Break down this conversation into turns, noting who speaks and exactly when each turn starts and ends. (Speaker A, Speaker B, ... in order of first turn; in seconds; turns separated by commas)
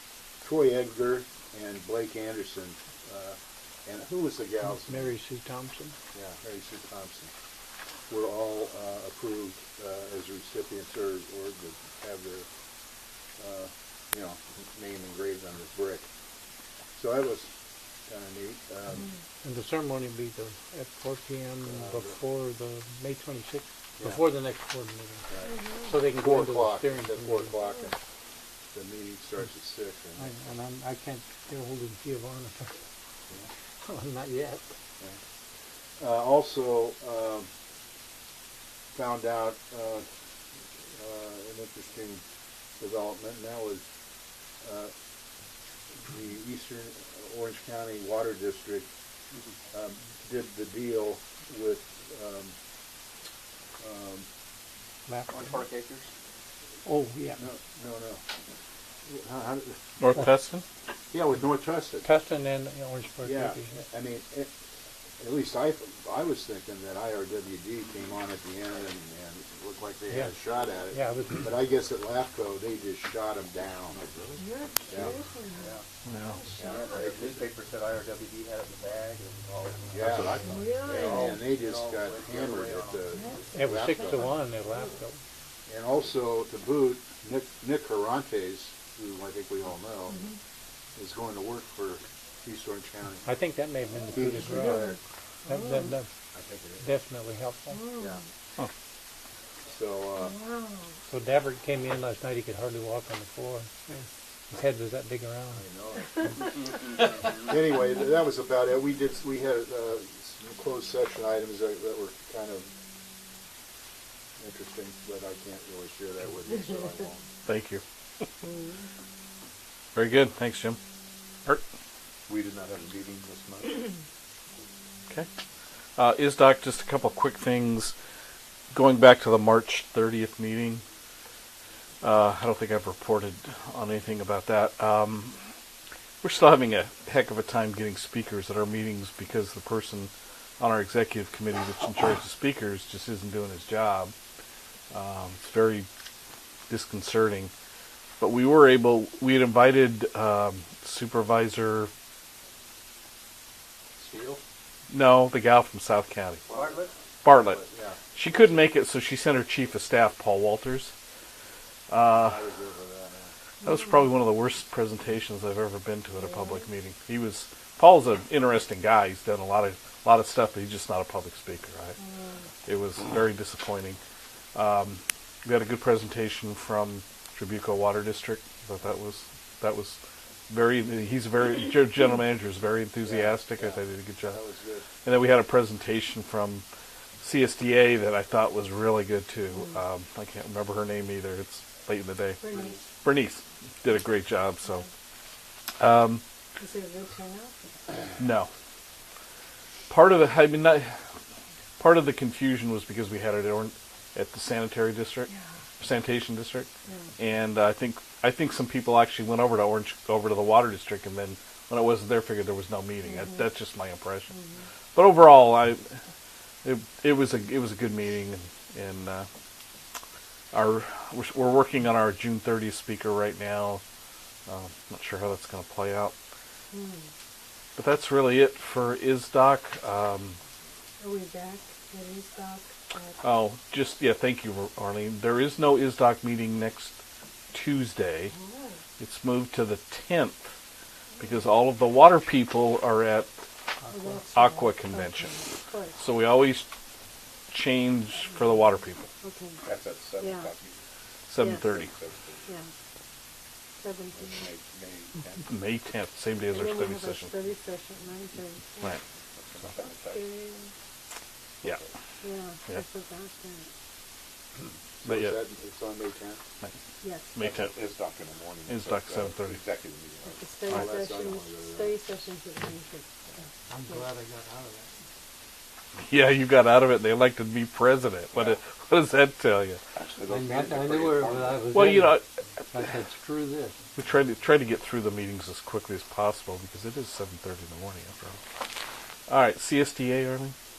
Speaker A: 0.4-5.2, Speaker B: 4.7-5.9, Speaker A: 6.1-7.3, Speaker A: 8.1-12.5, Speaker A: 13.4-16.1, Speaker A: 16.9-17.5, Speaker A: 18.1-19.1, Speaker B: 19.4-25.3, Speaker A: 21.6-22.2, Speaker A: 25.3-27.9, Speaker C: 25.4-25.8, Speaker B: 25.8-27.6, Speaker A: 28.7-30.3, Speaker B: 30.2-32.7, Speaker B: 33.8-34.6, Speaker A: 36.0-37.5, Speaker A: 38.9-40.0, Speaker A: 40.9-42.2, Speaker A: 42.8-43.8, Speaker A: 44.6-44.9, Speaker A: 46.0-48.9, Speaker A: 49.7-52.5, Speaker A: 53.8-54.2, Speaker B: 55.1-55.4, Speaker D: 55.3-56.1, Speaker B: 56.8-57.4, Speaker A: 57.4-58.2, Speaker A: 59.1-59.8, Speaker E: 60.0-60.6, Speaker A: 61.1-62.1, Speaker B: 62.0-63.9, Speaker A: 63.2-64.5, Speaker A: 65.2-74.3, Speaker B: 70.1-70.3, Speaker B: 70.9-71.5, Speaker C: 74.4-75.8, Speaker A: 74.9-75.1, Speaker D: 75.6-75.8, Speaker E: 76.0-76.4, Speaker C: 76.3-76.9, Speaker D: 76.5-83.5, Speaker A: 76.8-77.4, Speaker A: 79.9-84.3, Speaker C: 80.4-81.5, Speaker C: 83.1-83.4, Speaker B: 83.5-85.2, Speaker A: 85.7-90.2, Speaker C: 90.1-90.3, Speaker A: 91.0-93.3, Speaker B: 93.2-96.0, Speaker A: 94.0-95.0, Speaker C: 94.5-94.9, Speaker C: 95.5-95.9, Speaker A: 96.3-96.9, Speaker B: 96.8-97.8, Speaker C: 97.7-98.2, Speaker A: 99.7-100.3, Speaker C: 100.2-100.9, Speaker B: 101.1-104.0, Speaker B: 104.5-105.6, Speaker A: 105.5-106.2, Speaker A: 107.3-112.7, Speaker A: 114.4-117.2, Speaker E: 117.5-117.8, Speaker C: 118.4-118.8, Speaker E: 119.9-120.8, Speaker D: 122.3-123.9, Speaker E: 126.0-127.9, Speaker E: 128.7-130.8, Speaker E: 132.0-135.4, Speaker E: 136.2-144.1, Speaker E: 144.9-145.9, Speaker E: 146.7-147.5, Speaker E: 148.2-151.9, Speaker A: 154.0-154.4, Speaker E: 154.9-156.4, Speaker D: 156.5-156.9, Speaker A: 156.5-158.0, Speaker E: 157.2-160.9, Speaker E: 161.9-162.4, Speaker A: 162.1-163.3, Speaker E: 163.6-171.9, Speaker C: 166.2-166.6, Speaker C: 172.0-172.4, Speaker E: 172.7-174.0, Speaker E: 174.5-184.4, Speaker A: 183.0-184.9, Speaker E: 185.0-186.6, Speaker E: 187.2-192.4, Speaker C: 192.4-192.8, Speaker E: 192.9-194.8, Speaker E: 195.8-196.2, Speaker C: 196.6-197.6, Speaker E: 198.2-198.5, Speaker E: 199.9-201.0, Speaker E: 201.8-214.3, Speaker C: 206.8-207.1, Speaker C: 213.1-213.4, Speaker C: 214.3-214.6, Speaker E: 214.9-215.9, Speaker E: 216.6-219.3, Speaker E: 220.5-223.8, Speaker E: 224.5-226.1, Speaker C: 226.7-227.1, Speaker E: 227.8-230.4, Speaker C: 231.0-233.2, Speaker E: 233.2-237.0, Speaker E: 237.5-238.3, Speaker C: 238.3-238.8, Speaker E: 239.0-240.5, Speaker E: 241.2-243.3, Speaker C: 243.9-246.0, Speaker E: 244.3-245.4, Speaker E: 245.9-246.7, Speaker E: 247.5-249.1, Speaker C: 249.2-249.6, Speaker D: 249.6-250.8, Speaker C: 250.2-250.5, Speaker E: 251.3-251.9, Speaker C: 251.4-251.8, Speaker D: 251.6-252.5, Speaker C: 253.8-254.5, Speaker D: 254.1-255.4, Speaker E: 255.4-257.3, Speaker C: 256.5-259.0, Speaker D: 259.4-260.3, Speaker C: 259.8-260.7, Speaker D: 261.6-261.9, Speaker C: 262.2-263.7, Speaker A: 265.0-266.4, Speaker E: 265.0-265.4, Speaker C: 267.0-267.4, Speaker E: 267.3-267.8, Speaker D: 267.4-270.4, Speaker E: 268.7-269.6, Speaker C: 270.2-273.1, Speaker E: 270.6-271.1, Speaker A: 270.7-272.0, Speaker B: 273.7-275.0, Speaker E: 276.0-279.8, Speaker D: 279.9-282.0, Speaker B: 280.2-283.8, Speaker E: 281.7-282.2, Speaker E: 283.9-288.4, Speaker E: 289.3-290.5